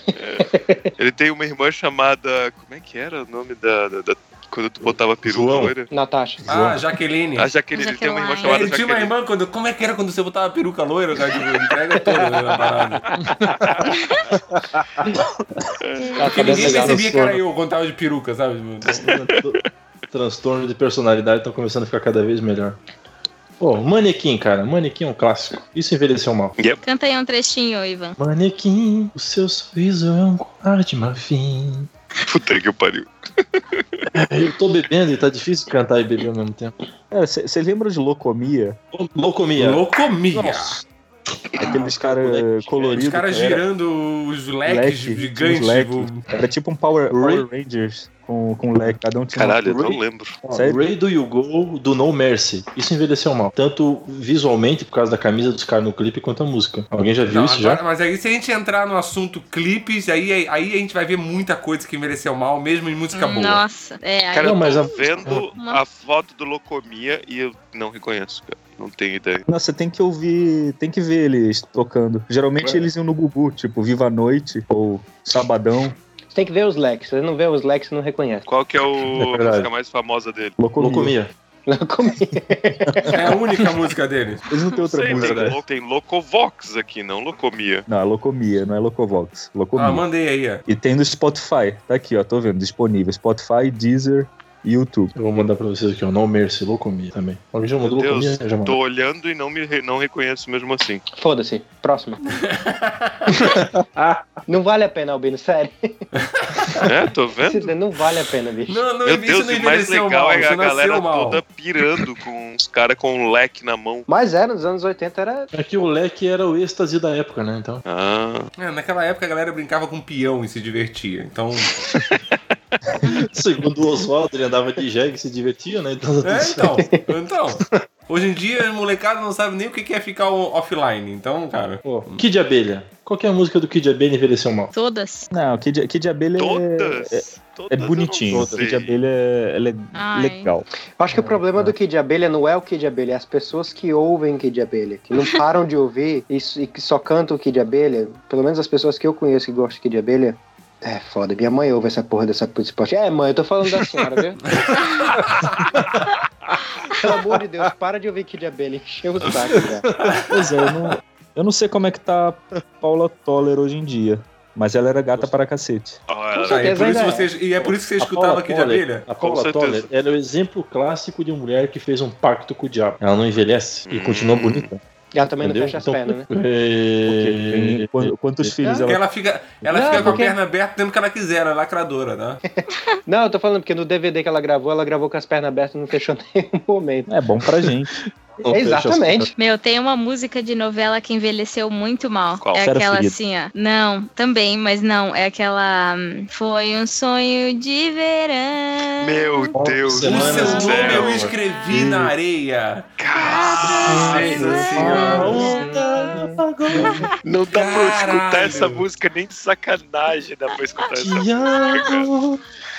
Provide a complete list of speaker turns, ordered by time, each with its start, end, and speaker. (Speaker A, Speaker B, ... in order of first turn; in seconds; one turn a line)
Speaker A: 0.1-0.5
Speaker B: 0.4-0.8
Speaker A: 1.0-5.9
Speaker C: 4.8-5.7
Speaker B: 5.9-6.4
Speaker C: 6.4-6.8
Speaker D: 6.5-7.5
Speaker A: 7.3-9.1
Speaker E: 7.7-8.6
Speaker D: 8.4-13.1
Speaker A: 13.2-13.8
Speaker C: 13.4-13.7
Speaker E: 13.9-14.2
Speaker C: 14.3-15.2
Speaker A: 15.8-16.9
Speaker B: 16.2-17.0
Speaker D: 16.2-19.1
Speaker C: 16.7-17.4
Speaker C: 18.8-19.6
Speaker A: 19.3-19.7
Speaker C: 20.1-22.8
Speaker C: 23.6-26.5
Speaker E: 26.8-28.2
Speaker C: 28.2-31.9
Speaker A: 32.2-34.0
Speaker C: 34.1-36.7
Speaker F: 37.1-38.8
Speaker C: 38.9-39.8
Speaker D: 39.6-40.8
Speaker F: 40.3-40.8
Speaker F: 41.6-43.6
Speaker C: 41.6-42.8
Speaker D: 42.9-46.2
Speaker F: 44.6-50.0
Speaker C: 47.1-47.4
Speaker A: 49.3-50.4
Speaker C: 50.4-57.8
Speaker F: 50.5-50.8
Speaker D: 57.3-63.6
Speaker E: 63.1-64.9
Speaker A: 64.3-69.4
Speaker C: 64.4-65.5
Speaker F: 69.5-76.0
Speaker B: 76.3-78.5
Speaker A: 78.5-80.6
Speaker C: 79.2-79.7
Speaker F: 80.6-81.2
Speaker C: 80.7-81.3
Speaker B: 81.7-83.3
Speaker D: 83.1-84.4
Speaker F: 84.5-85.5
Speaker A: 84.8-87.8
Speaker C: 85.1-85.6
Speaker F: 87.9-90.0
Speaker D: 89.7-90.6
Speaker F: 90.7-95.1
Speaker C: 95.1-98.8
Speaker A: 97.8-101.0
Speaker B: 101.2-102.2
Speaker D: 102.3-103.3
Speaker C: 103.3-104.2
Speaker B: 104.5-106.0
Speaker D: 106.4-106.8
Speaker A: 106.8-107.7
Speaker B: 107.4-108.8
Speaker D: 108.7-111.4
Speaker A: 109.0-114.1
Speaker B: 114.1-115.5
Speaker C: 115.5-117.8
Speaker A: 117.8-118.5
Speaker D: 118.6-121.8
Speaker A: 121.8-122.8
Speaker C: 123.0-126.8
Speaker D: 126.2-132.2
Speaker C: 131.8-134.7
Speaker E: 134.7-135.3
Speaker F: 135.3-141.7
Speaker A: 136.3-138.9
Speaker C: 138.3-138.7
Speaker E: 139.9-140.5
Speaker B: 141.0-154.4
Speaker D: 154.9-155.1
Speaker C: 155.3-156.2
Speaker B: 157.0-159.8
Speaker C: 159.5-160.2
Speaker F: 160.3-166.0
Speaker A: 166.1-167.1
Speaker B: 166.3-167.3
Speaker D: 166.4-169.1
Speaker C: 167.6-174.8
Speaker A: 169.2-169.9
Speaker A: 173.9-174.7
Speaker B: 175.1-176.3
Speaker C: 175.4-178.5
Speaker F: 177.1-179.0
Speaker B: 178.6-178.9
Speaker D: 178.8-182.4
Speaker B: 179.7-180.4
Speaker F: 179.8-180.1
Speaker B: 183.1-187.1
Speaker F: 187.1-187.9
Speaker C: 188.4-189.3
Speaker B: 188.5-189.3
Speaker E: 189.4-199.5
Speaker A: 192.4-192.7
Speaker F: 192.6-193.2
Speaker A: 199.0-201.3
Speaker C: 199.5-201.3
Speaker D: 200.0-205.5
Speaker E: 200.2-200.7
Speaker F: 201.7-202.1
Speaker A: 203.0-205.7
Speaker E: 203.2-204.6
Speaker C: 203.7-207.2
Speaker B: 204.8-205.6
Speaker E: 205.3-206.0
Speaker B: 206.1-206.4
Speaker A: 207.2-212.1
Speaker D: 207.5-208.8
Speaker C: 210.9-212.4
Speaker E: 211.6-211.9